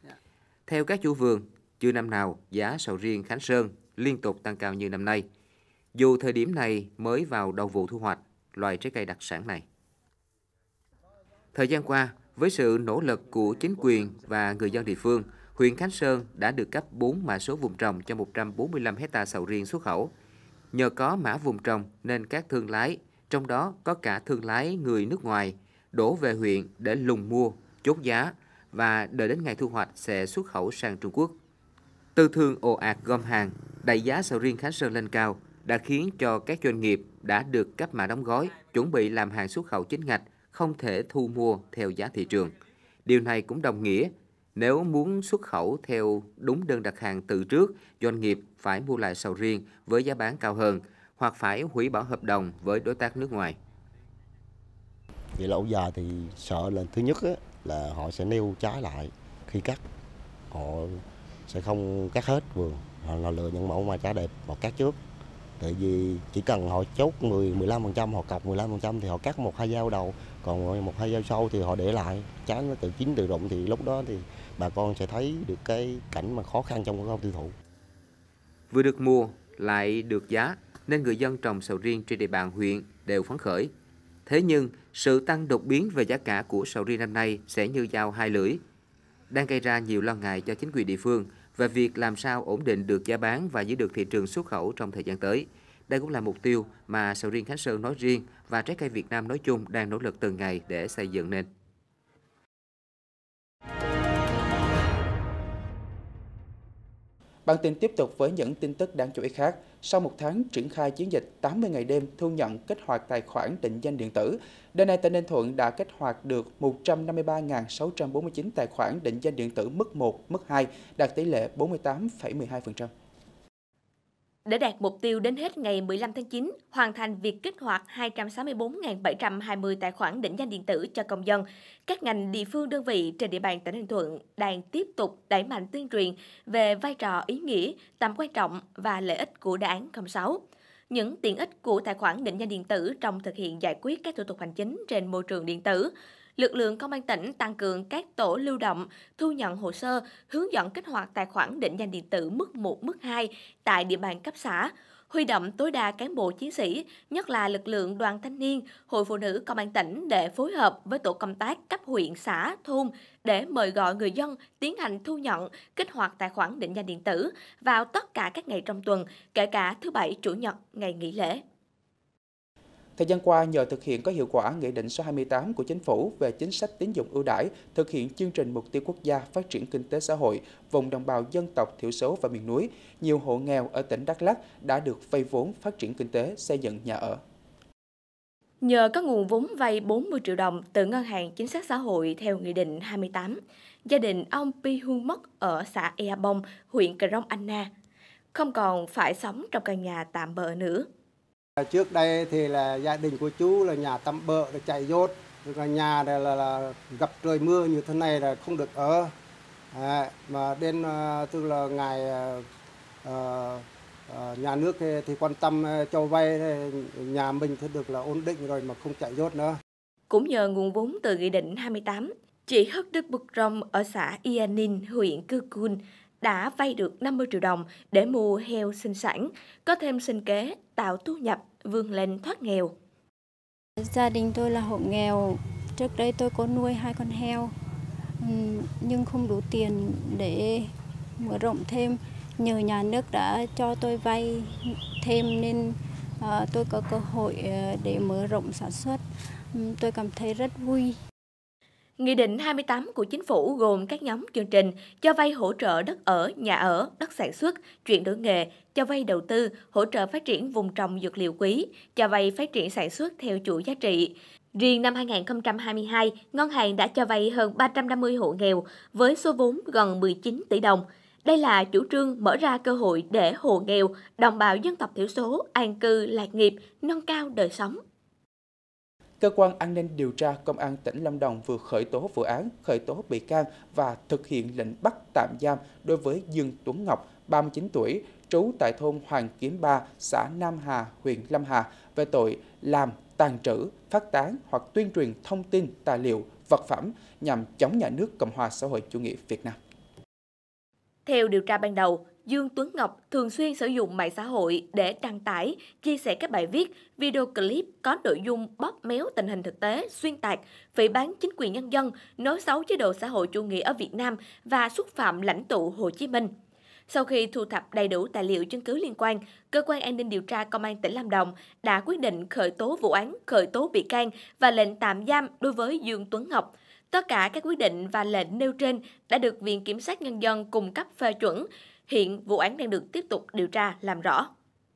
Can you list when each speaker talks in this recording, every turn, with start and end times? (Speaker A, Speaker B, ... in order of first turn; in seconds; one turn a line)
Speaker A: 0.7-5.3
Speaker A: 5.9-9.7
Speaker A: 11.5-20.1
Speaker A: 20.7-31.4
Speaker A: 32.2-42.5
Speaker A: 43.1-53.6
Speaker B: 55.4-59.8
Speaker B: 60.5-65.0
Speaker B: 65.6-77.5
Speaker A: 78.7-83.7
Speaker A: 84.3-88.6
Speaker A: 89.3-101.5
Speaker C: 107.5-122.9
Speaker D: 124.5-171.4
Speaker C: 173.0-187.2
Speaker D: 188.6-197.7
Speaker D: 198.3-200.9
Speaker E: 201.6-209.1
Speaker E: 209.7-212.5
Speaker E: 213.0-219.6
Speaker D: 220.1-232.7
Speaker F: 233.8-237.5
Speaker F: 238.2-251.0
Speaker D: 252.0-277.8
Speaker C: 279.2-299.6
Speaker D: 301.1-316.3
Speaker D: 316.9-334.3